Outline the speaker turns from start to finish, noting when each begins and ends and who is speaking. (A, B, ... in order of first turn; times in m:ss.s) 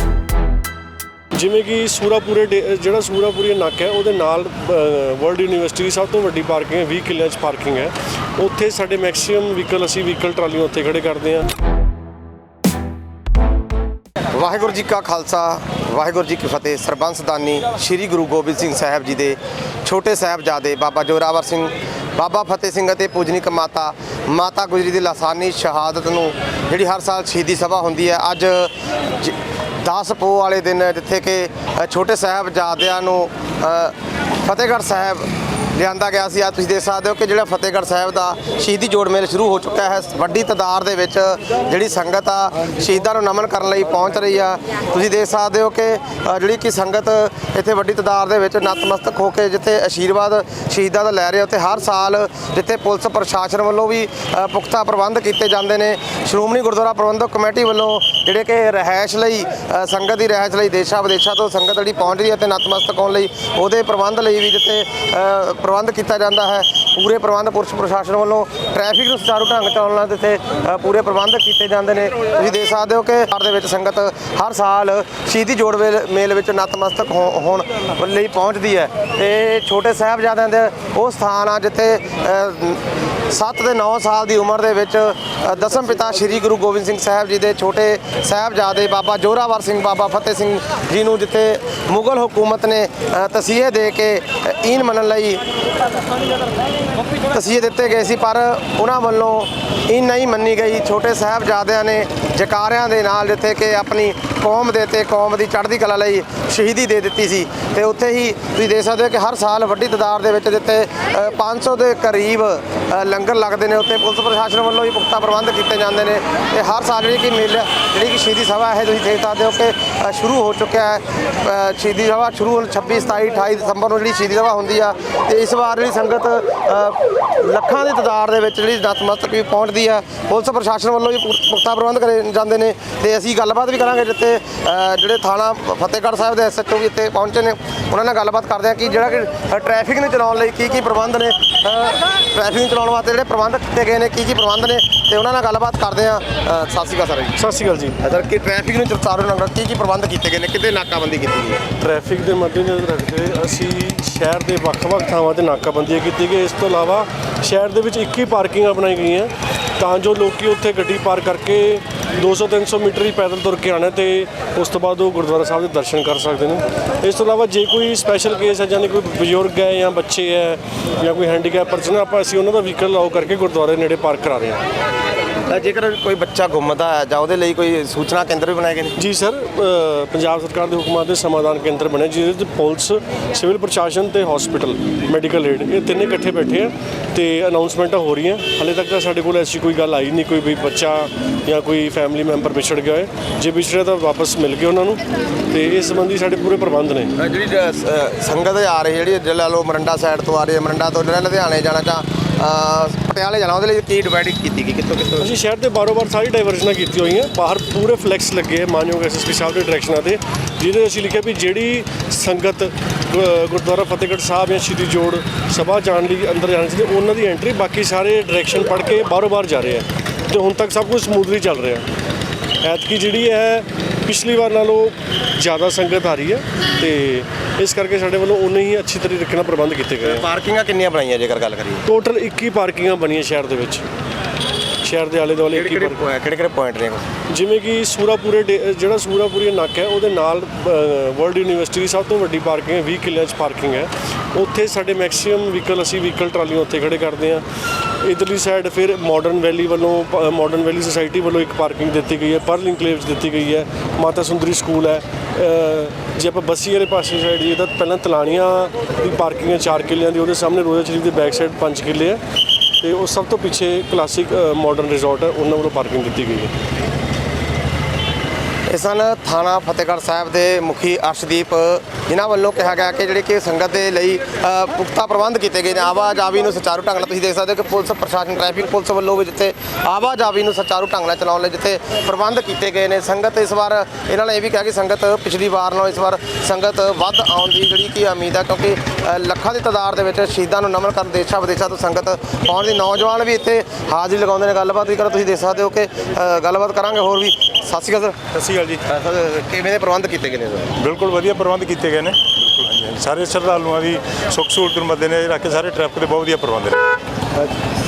0:01.3-0:11.5 A
0:14.3-1:35.4 B
1:37.3-2:27.4 B
2:27.4-2:28.0 A
2:28.0-2:31.6 B
2:31.8-2:54.6 A
2:55.5-2:59.0 B
2:59.0-3:17.1 A
3:17.2-3:25.4 B
3:25.2-3:41.8 A
3:42.6-3:50.3 A
3:50.0-3:51.8 B
3:51.8-3:53.8 A
3:54.8-3:56.0 A
3:55.5-3:57.1 B
3:57.3-4:07.4 A
4:08.0-4:22.2 A
4:22.8-4:26.5 A
4:28.7-5:00.7 B
4:58.4-4:58.8 C
5:00.8-5:06.8 C